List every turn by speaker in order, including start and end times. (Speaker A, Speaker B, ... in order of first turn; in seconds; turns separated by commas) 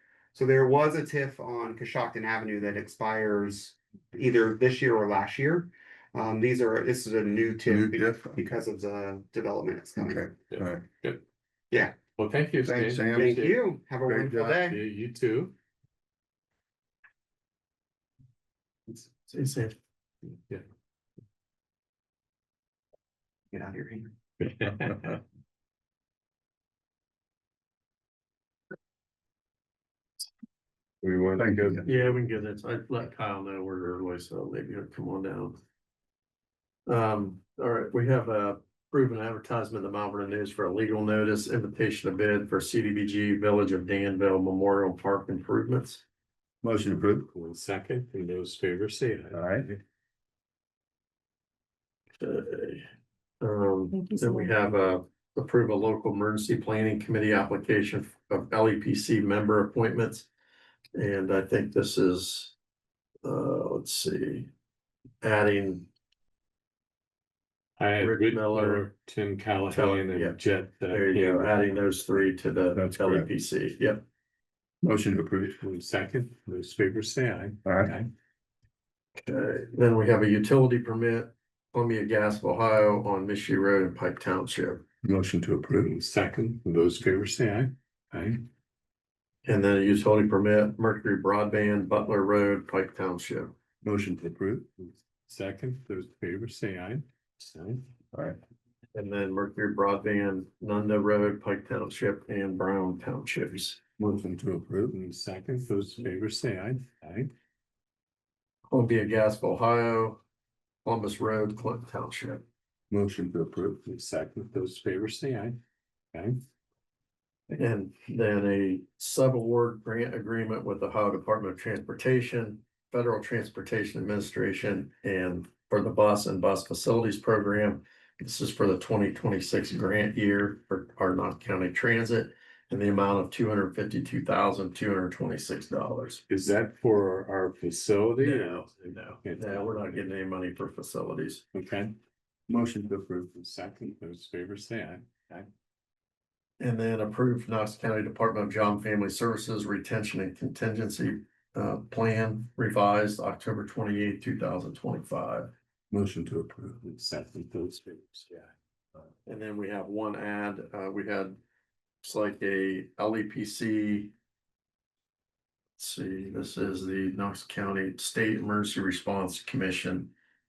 Speaker A: 0.3-10.2, Speaker B: 7.7-8.4, Speaker B: 10.0-10.8, Speaker C: 10.5-11.2, Speaker A: 11.7-11.9, Speaker C: 12.2-13.6, Speaker B: 12.6-13.4, Speaker A: 13.1-14.8, Speaker B: 14.0-14.6, Speaker C: 14.6-15.5, Speaker D: 19.3-19.8, Speaker A: 23.5-24.1, Speaker C: 24.4-25.1, Speaker C: 31.0-31.8, Speaker B: 31.4-31.8, Speaker D: 31.8-35.6, Speaker D: 36.9-46.0, Speaker B: 46.6-47.3, Speaker C: 47.3-49.8, Speaker B: 49.3-49.7, Speaker D: 52.2-52.8, Speaker D: 53.4-60.3, Speaker D: 60.9-62.5, Speaker D: 63.2-64.5, Speaker D: 65.2-65.9, Speaker C: 67.8-71.5, Speaker D: 68.0-68.9, Speaker D: 69.7-70.3, Speaker D: 70.9-74.0, Speaker B: 72.7-73.3, Speaker B: 74.8-75.6, Speaker C: 75.6-78.1, Speaker B: 77.6-77.9, Speaker D: 79.2-84.8, Speaker B: 85.0-85.9, Speaker C: 85.8-88.4, Speaker D: 89.4-93.5, Speaker B: 93.8-94.6, Speaker C: 94.8-97.9, Speaker D: 98.9-103.8, Speaker B: 104.0-105.0, Speaker C: 104.9-107.3, Speaker D: 108.7-110.2, Speaker D: 110.8-112.4, Speaker B: 112.9-113.8, Speaker C: 113.8-115.6, Speaker C: 116.1-116.4, Speaker D: 117.6-136.2, Speaker C: 136.3-139.8, Speaker D: 138.2-141.4, Speaker C: 141.5-141.9, Speaker B: 142.5-143.3, Speaker C: 143.3-145.5, Speaker D: 146.6-155.5, Speaker B: 155.9-156.8, Speaker C: 156.8-158.5, Speaker D: 159.2-161.4, Speaker D: 162.0-164.1, Speaker D: 165.8-170.1